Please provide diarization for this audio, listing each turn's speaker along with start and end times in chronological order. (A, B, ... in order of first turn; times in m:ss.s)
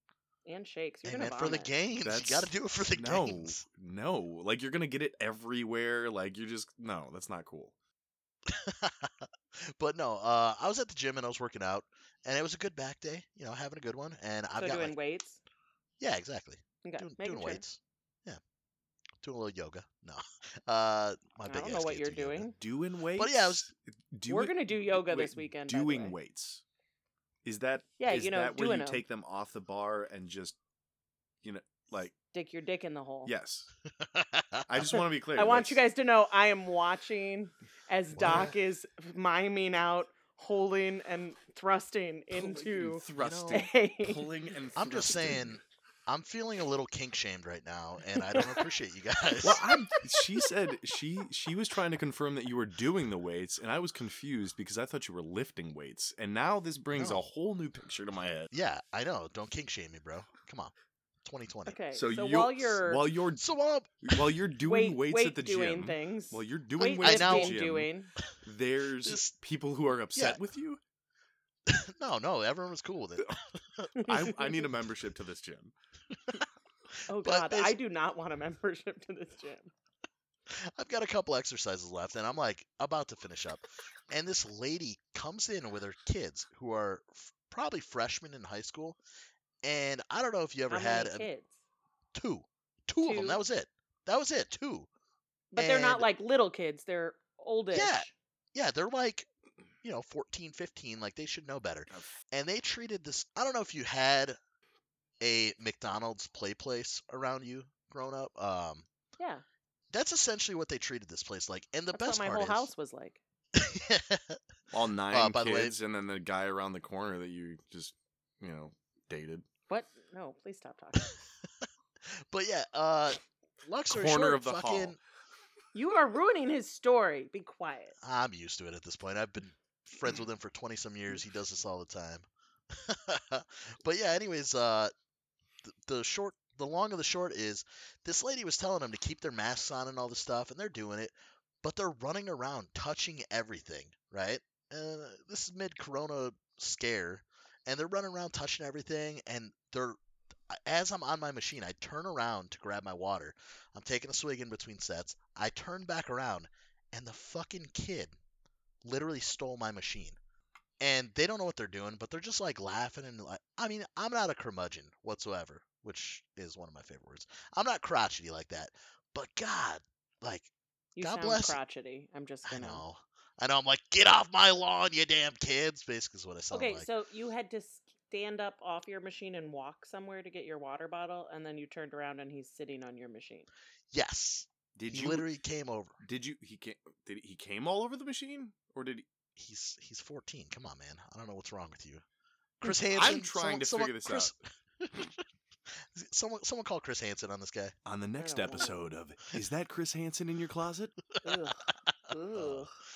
0:00.4-0:01.7 A
0:01.0-0:03.6 B
0:02.0-0:07.7 C
0:08.5-0:15.0 B
0:14.6-0:15.4 A
0:16.0-0:18.4 B
0:16.8-0:17.6 A
0:19.2-0:22.5 B
0:21.5-0:22.6 A
0:22.6-0:26.6 C
0:23.2-0:23.7 B
0:24.3-0:26.2 A
0:27.4-0:30.6 C
0:28.0-0:29.0 A
0:31.4-0:32.1 C
0:32.3-0:33.3 A
0:33.3-0:33.7 C
0:34.0-0:34.7 B
0:34.7-0:35.8 C
0:35.4-0:44.3 A
0:38.2-0:38.6 B
0:42.3-0:45.6 C
0:43.2-0:43.7 B
0:44.8-0:49.7 B
0:48.3-0:48.7 A
0:49.4-0:58.5 C
0:57.0-0:57.2 B
0:58.5-1:00.7 B
1:01.2-1:01.8 B
1:01.7-1:03.1 A
1:01.9-1:03.5 C
1:03.4-1:04.0 B
1:04.0-1:07.9 C
1:04.7-1:08.1 A
1:07.0-1:07.6 B
1:08.4-1:10.8 C
1:09.0-1:09.3 B
1:11.7-1:14.1 B
1:14.0-1:14.4 A
1:14.0-1:15.7 C
1:17.1-1:19.7 A
1:17.1-1:17.8 B
1:20.5-1:29.0 B
1:29.6-1:31.3 B
1:30.7-1:31.5 A
1:32.1-1:34.9 B
1:33.0-1:33.4 A
1:35.5-1:38.1 A
1:35.6-1:36.1 B
1:37.7-1:39.3 B
1:39.8-1:44.4 B
1:45.2-1:48.9 B
1:49.2-1:49.4 A
1:49.9-1:52.7 B
1:51.9-1:53.2 A
1:53.5-1:54.4 B
1:54.7-1:59.5 C
1:55.1-1:55.8 B
1:59.7-2:01.2 A
2:02.2-2:05.0 B
2:03.9-2:05.0 C
2:05.7-2:08.0 A
2:08.0-2:14.9 B
2:15.6-2:30.0 B
2:30.5-2:38.2 B
2:38.8-2:40.2 B
2:40.8-2:51.6 B
2:51.0-2:52.8 A
2:52.4-2:56.9 B
2:56.5-3:03.5 A
3:03.9-3:06.0 B
3:04.8-3:05.3 C
3:06.0-3:09.1 C
3:09.4-3:12.0 B
3:12.6-3:17.8 B
3:12.9-3:14.3 C
3:17.8-3:21.0 C
3:18.2-3:18.9 A
3:21.2-3:22.7 A
3:22.1-3:22.7 B